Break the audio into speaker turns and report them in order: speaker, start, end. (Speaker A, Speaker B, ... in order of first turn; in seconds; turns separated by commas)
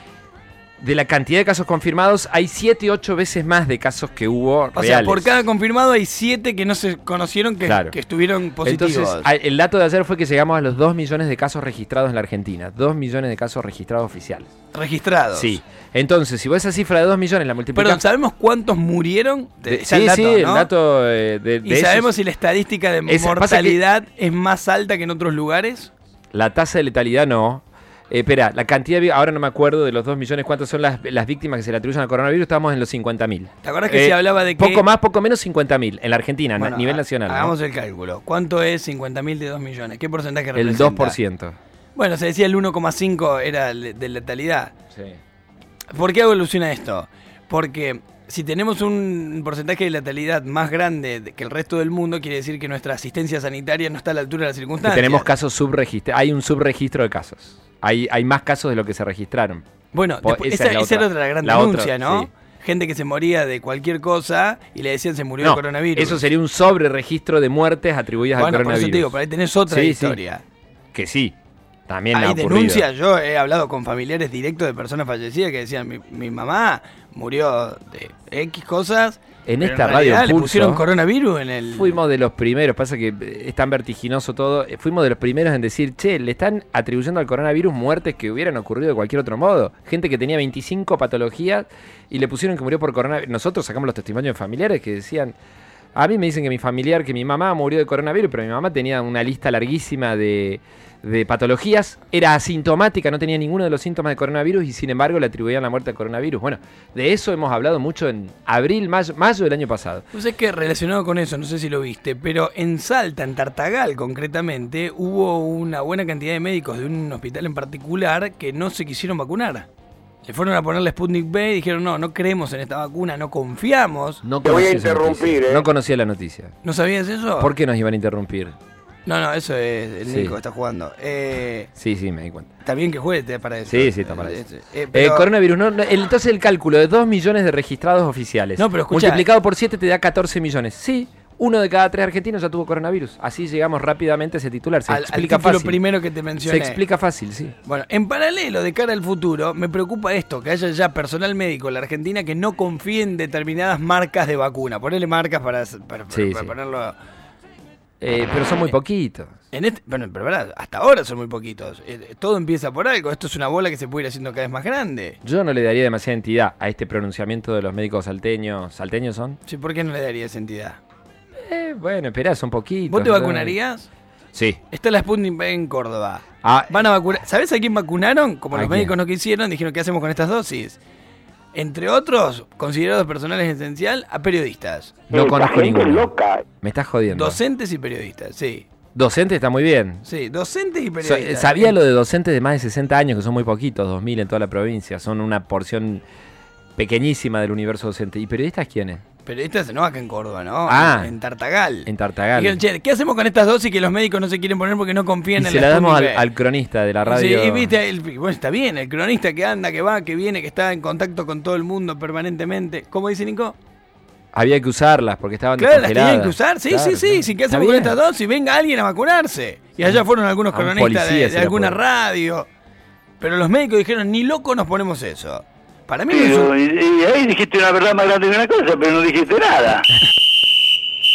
Speaker A: 0.8-5.4, Speaker B: 4.8-9.3, Speaker A: 7.6-8.0, Speaker A: 8.7-14.5, Speaker B: 14.7-15.6, Speaker A: 15.3-18.0, Speaker B: 17.8-20.7, Speaker A: 19.7-22.1, Speaker B: 21.6-25.9, Speaker A: 23.1-23.8, Speaker A: 26.3-37.5, Speaker B: 33.6-34.8, Speaker B: 36.6-41.2, Speaker A: 40.6-41.6, Speaker B: 42.0-44.7, Speaker B: 45.9-55.3, Speaker A: 54.8-59.6, Speaker B: 59.9-66.2, Speaker A: 60.2-62.3, Speaker A: 65.4-69.1, Speaker B: 68.4-70.4, Speaker A: 69.7-70.2, Speaker A: 70.9-71.4, Speaker A: 71.9-72.9, Speaker B: 72.1-82.0, Speaker A: 79.5-80.8, Speaker A: 81.8-95.4, Speaker A: 96.0-110.0, Speaker B: 110.1-119.7, Speaker B: 120.3-124.2, Speaker A: 124.2-126.5, Speaker C: 124.4-125.7, Speaker B: 126.6-127.5, Speaker A: 127.4-128.6, Speaker B: 129.1-131.7, Speaker A: 130.1-130.3, Speaker A: 131.8-132.5, Speaker B: 132.7-135.3, Speaker A: 133.7-134.4, Speaker A: 134.9-145.8, Speaker B: 138.6-139.3, Speaker B: 144.9-146.8, Speaker A: 146.4-147.6, Speaker B: 147.7-157.0, Speaker A: 156.1-156.5, Speaker A: 158.0-159.3, Speaker B: 159.5-165.2, Speaker A: 165.2-169.4, Speaker B: 169.5-170.8, Speaker A: 171.4-173.6, Speaker B: 172.9-173.9, Speaker A: 174.3-174.6, Speaker B: 174.7-180.8, Speaker A: 176.4-176.8, Speaker A: 178.5-178.9, Speaker B: 181.5-185.0, Speaker A: 185.1-186.1, Speaker C: 185.1-186.4, Speaker A: 186.6-187.4, Speaker B: 187.1-188.7, Speaker A: 188.9-190.1, Speaker B: 190.1-191.8, Speaker A: 191.0-196.0, Speaker A: 196.8-199.0, Speaker B: 199.3-206.3, Speaker A: 200.7-201.1, Speaker A: 201.9-202.6, Speaker A: 205.4-207.7, Speaker B: 207.1-213.6, Speaker A: 214.3-218.0, Speaker B: 215.6-222.5, Speaker A: 219.8-221.8, Speaker B: 223.2-226.6, Speaker D: 226.1-229.9